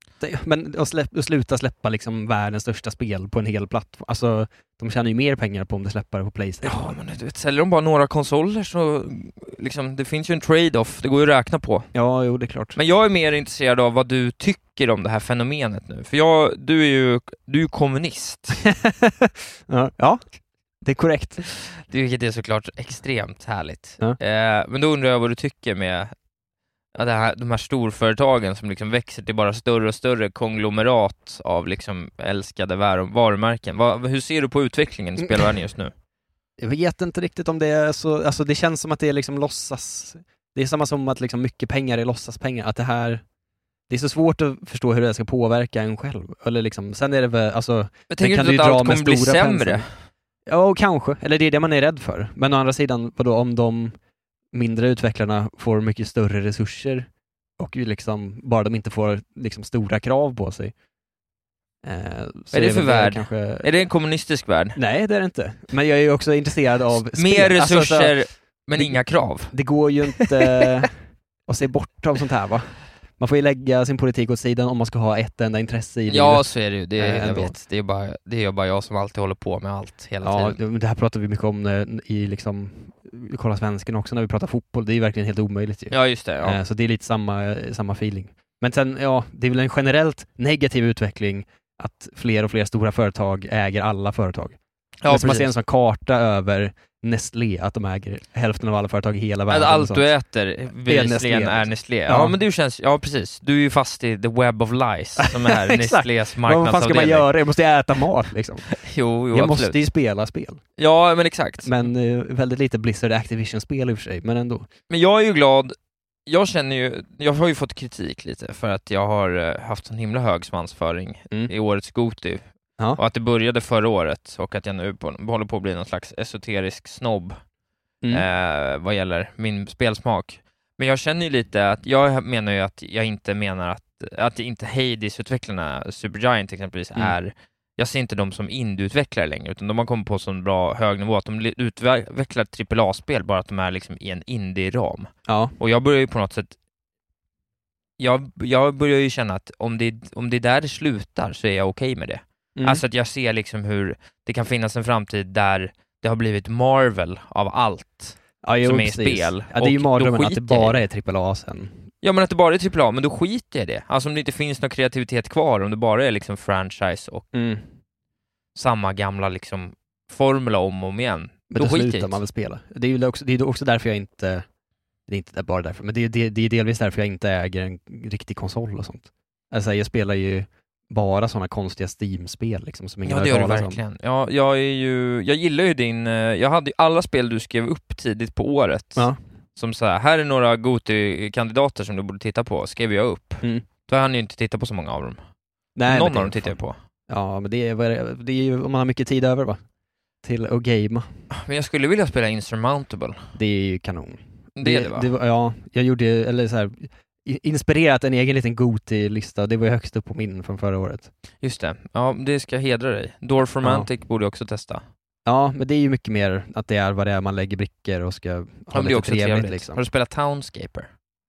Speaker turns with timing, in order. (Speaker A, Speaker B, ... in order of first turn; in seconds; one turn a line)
Speaker A: 0.2-7.0
Speaker B: 6.6-11.9
Speaker A: 11.9-12.8
Speaker B: 12.8-18.6
Speaker A: 18.8-20.3
Speaker A: 20.8-21.4
Speaker B: 21.8-26.1
Speaker B: 26.9-35.9
Speaker A: 35.2-35.5
Speaker A: 36.6-43.2
Speaker A: 43.9-49.9
Speaker B: 48.1-49.9
Speaker A: 50.5-54.0
Speaker A: 54.5-60.7
Speaker A: 61.8-63.9
Speaker B: 62.5-64.8
Speaker A: 64.8-68.2
Speaker B: 67.0-69.5
Speaker A: 68.8-77.5
Speaker B: 70.2-70.7
Speaker B: 76.1-80.6
Speaker A: 80.2-100.1
Speaker B: 85.9-86.6
Speaker B: 95.0-95.5
Speaker B: 99.5-107.3
Speaker A: 100.7-102.4
Speaker A: 105.2-108.7
Speaker B: 108.7-109.8
Speaker A: 109.3-110.6
Speaker B: 110.8-111.7
Speaker A: 111.6-114.7
Speaker B: 114.9-115.8
Speaker B: 116.3-122.4
Speaker B: 123.0-127.4
Speaker B: 128.1-146.6
Speaker A: 145.3-145.6
Speaker B: 148.0-160.8
Speaker A: 152.6-152.8
Speaker A: 158.4-161.9
Speaker B: 162.0-167.3
Speaker A: 167.3-167.7
Speaker B: 168.6-172.2
Speaker A: 171.5-174.5
Speaker A: 175.1-183.8
Speaker B: 183.1-195.2
Speaker A: 195.8-199.6
Speaker B: 195.9-196.8
Speaker A: 200.2-201.2
Speaker B: 201.3-203.2
Speaker A: 203.4-211.1
Speaker B: 204.6-205.1
Speaker B: 211.4-214.8
Speaker A: 213.6-213.9
Speaker A: 215.3-219.8
Speaker B: 218.7-220.9